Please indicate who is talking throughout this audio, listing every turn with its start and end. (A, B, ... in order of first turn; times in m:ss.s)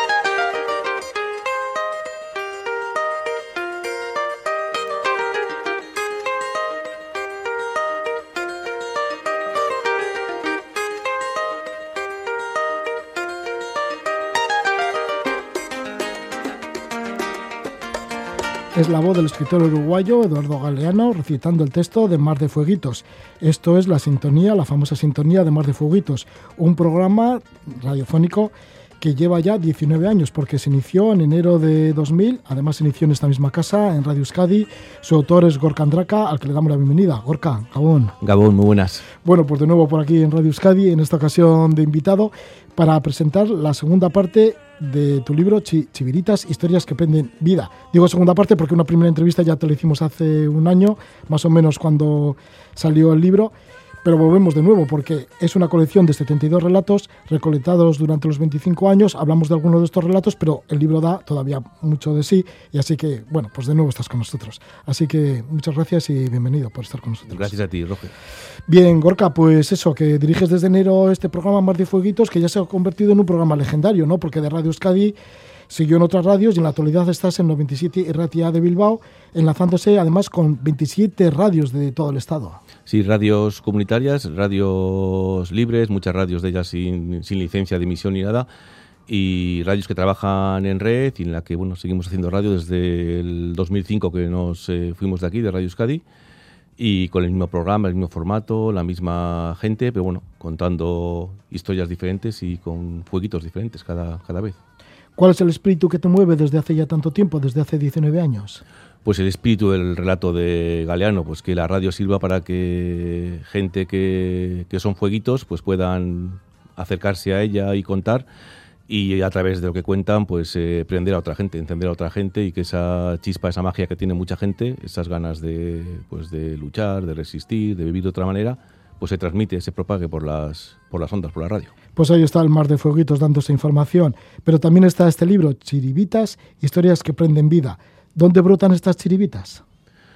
0:18.8-0:38.2 A
0:38.2-0:39.0 B
0:39.2-1:07.4 A
1:07.3-1:08.1 B
1:08.7-1:15.2 A
1:15.7-1:22.6 A
1:22.9-1:28.5 B
1:29.1-1:36.0 B
1:36.8-1:44.6 B
1:45.2-1:48.6 A
1:49.0-1:58.3 B
1:58.9-2:11.7 B
2:12.0-2:19.6 A